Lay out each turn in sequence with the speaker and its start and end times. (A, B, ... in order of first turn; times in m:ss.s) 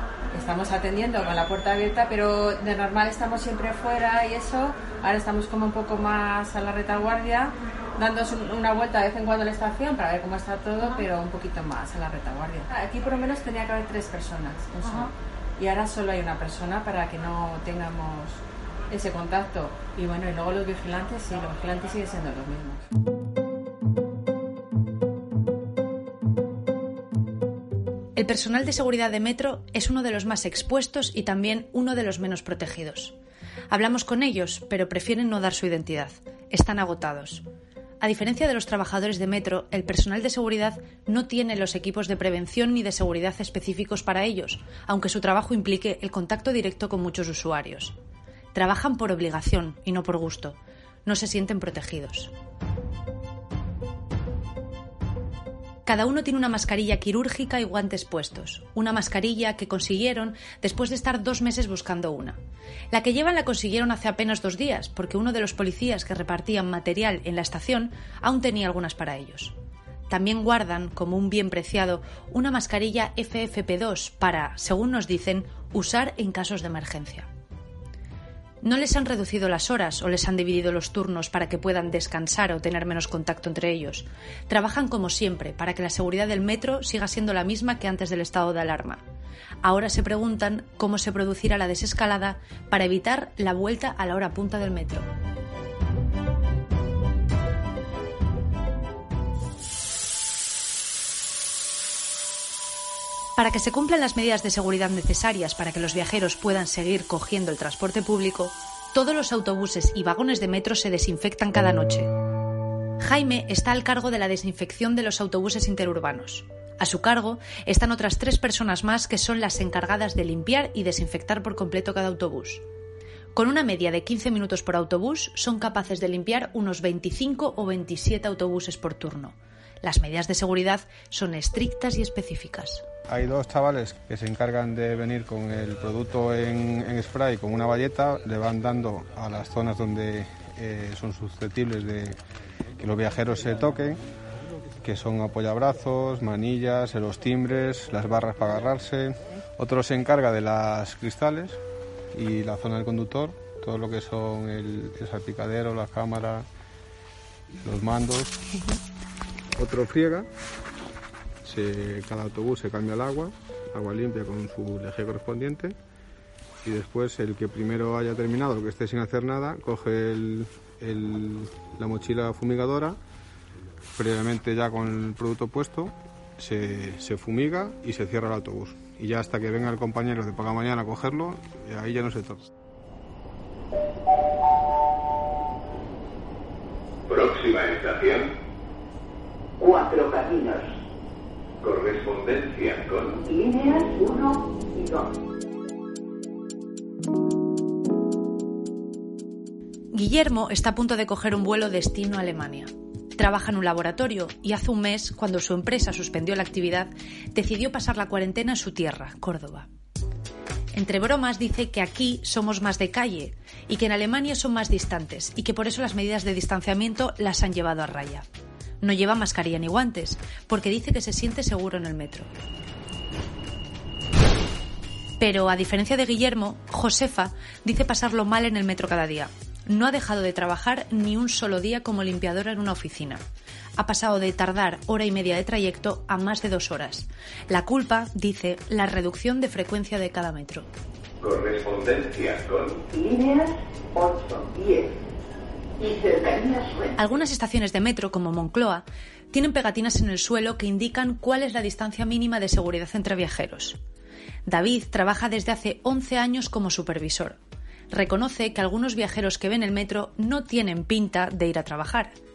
0:00.3-0:22.8 A
0:28.2-0:33.2 B
0:33.7-0:37.4 B
0:38.0-0:48.0 B
0:48.5-0:52.3 B
0:55.8-1:02.4 B
1:02.9-1:09.5 B
1:10.1-1:17.3 B
1:18.6-1:29.0 B
1:29.6-1:35.1 B
1:43.4-1:52.1 B
1:53.0-2:02.6 B
2:03.4-2:12.8 B
2:13.1-2:22.2 C
2:22.8-2:24.0 C
2:24.8-2:31.6 C
2:32.1-2:36.4 C
2:37.6-2:38.4 C
2:39.6-2:40.3 C
2:41.4-2:45.7 C
2:46.6-2:53.0 C
2:54.0-3:02.4 C
3:07.1-3:08.3 D
3:09.6-3:10.7 E
3:11.6-3:13.2 D
3:13.3-3:15.0 E
3:19.9-3:29.7 B
3:30.7-3:38.2 B
3:38.8-3:42.3 B
3:45.2-3:53.2 B
3:53.8-4:00.6 B
4:01.2-4:02.9 D
4:02.9-4:04.9 E
4:05.8-4:06.8 E
4:07.0-4:13.8 B
4:14.4-4:17.4 B
4:17.9-4:22.1 B